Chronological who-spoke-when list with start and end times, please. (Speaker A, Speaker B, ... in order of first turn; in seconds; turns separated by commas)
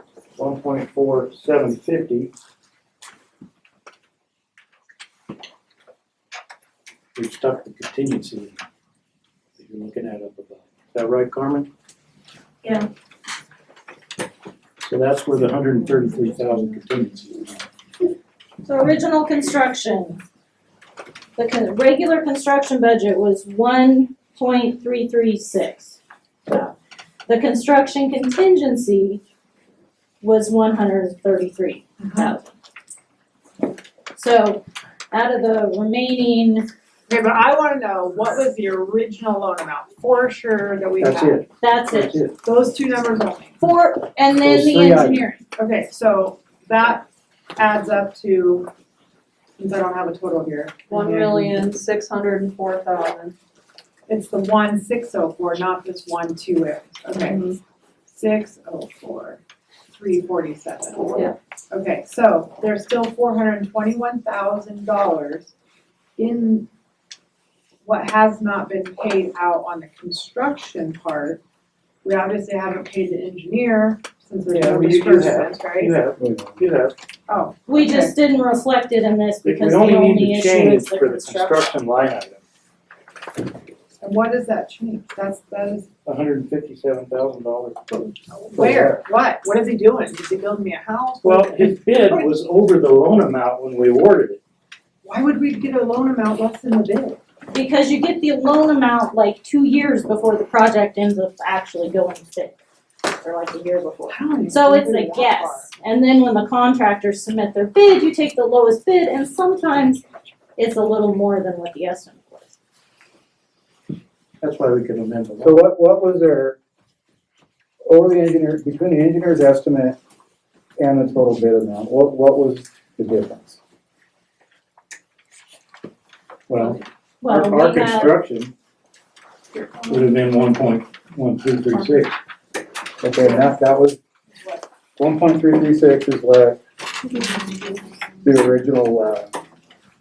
Speaker A: 0.4-2.3, Speaker A: 7.2-8.6, Speaker A: 9.6-11.7, Speaker B: 12.6-12.9, Speaker A: 14.8-17.5, Speaker B: 18.6-20.2, Speaker B: 21.4-26.7, Speaker B: 27.3-29.2, Speaker B: 30.2-32.5, Speaker C: 32.1-32.3, Speaker B: 34.1-36.7, Speaker C: 37.1-41.4, Speaker A: 41.0-42.4, Speaker B: 41.6-42.2, Speaker C: 42.4-43.6, Speaker B: 43.6-45.4, Speaker D: 44.4-45.2, Speaker C: 45.5-47.0, Speaker C: 47.6-48.7, Speaker C: 49.6-51.7, Speaker E: 50.9-53.3, Speaker C: 54.1-57.5, Speaker E: 57.1-57.6, Speaker C: 58.1-59.4, Speaker C: 59.9-65.5, Speaker C: 66.2-66.7, Speaker C: 67.8-71.4, Speaker C: 72.0-75.9, Speaker A: 74.5-76.9, Speaker D: 76.2-76.6, Speaker C: 77.3-78.1, Speaker B: 77.7-81.8, Speaker A: 79.4-82.4, Speaker C: 84.0-85.9, Speaker A: 86.0-88.1, Speaker C: 88.5-92.3, Speaker D: 88.5-89.0, Speaker A: 91.2-94.4, Speaker C: 95.0-97.2, Speaker B: 97.5-110.0, Speaker C: 104.1-105.7, Speaker B: 110.6-112.5, Speaker A: 114.4-115.6, Speaker D: 115.4-116.6, Speaker D: 117.9-120.0, Speaker D: 120.8-123.6, Speaker A: 126.5-128.5, Speaker B: 127.2-128.2, Speaker A: 129.9-132.2, Speaker D: 133.0-134.0, Speaker D: 135.0-136.6, Speaker D: 138.2-139.3